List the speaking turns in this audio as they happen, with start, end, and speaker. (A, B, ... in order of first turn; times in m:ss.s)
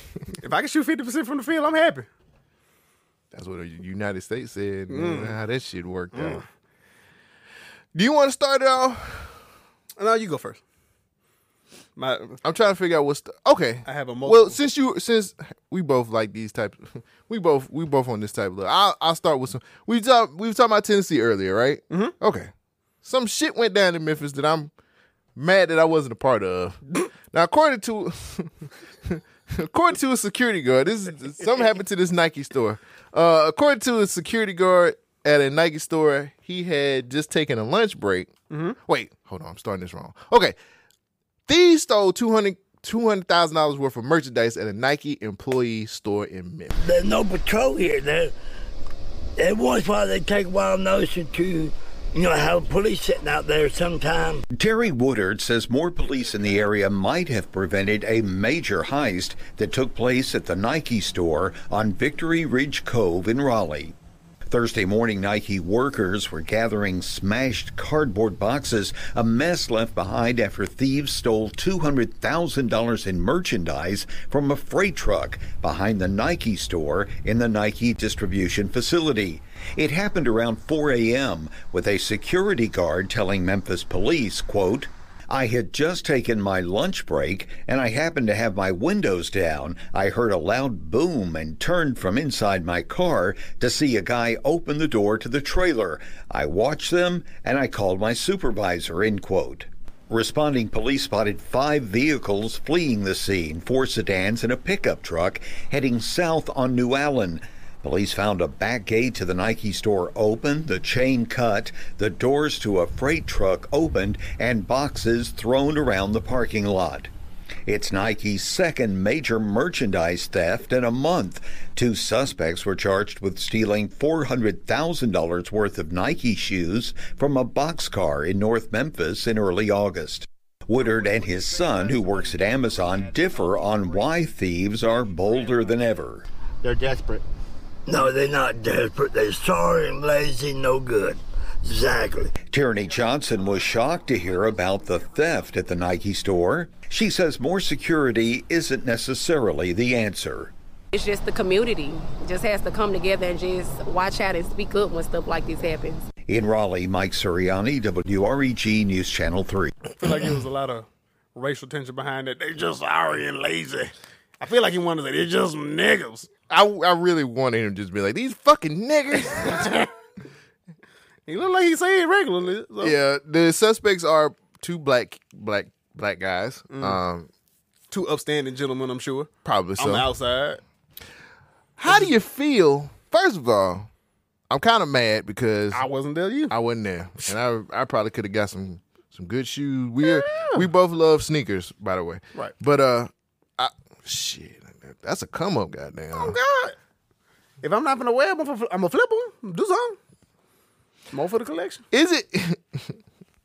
0:00.3-0:02.1 A
0:03.3-0:06.4 B
0:04.9-0:05.4 A
0:06.1-0:06.4 A
0:07.9-0:09.4 B
0:10.0-0:10.6 A
0:12.0-0:12.4 A
0:12.4-0:22.5 B
0:13.8-0:14.6 A
0:23.0-0:24.7 B
0:25.4-0:38.3 B
0:38.5-0:38.8 A
0:38.8-0:40.6 B
0:41.5-0:46.7 B
0:46.8-0:48.3 C
0:49.4-0:54.4 C
0:54.6-1:04.0 D
1:04.5-1:57.1 D
1:57.7-2:16.2 D
2:17.9-2:22.3 C
2:22.5-2:30.5 D
2:30.9-2:36.1 E
2:36.3-2:39.7 D
2:40.0-2:46.3 A
2:46.5-2:49.9 B
2:49.3-2:49.9 A
2:51.3-2:53.0 A
2:52.8-2:57.3 B
2:56.7-2:57.0 A
2:57.9-3:00.6 A
2:59.4-3:00.1 B
3:01.8-3:03.9 B
3:04.5-3:05.8 B
3:05.7-3:06.5 A
3:06.5-3:16.4 B
3:10.0-3:10.7 A
3:16.1-3:16.8 A
3:17.6-3:20.0 A
3:21.1-3:21.8 A
3:21.9-3:23.0 B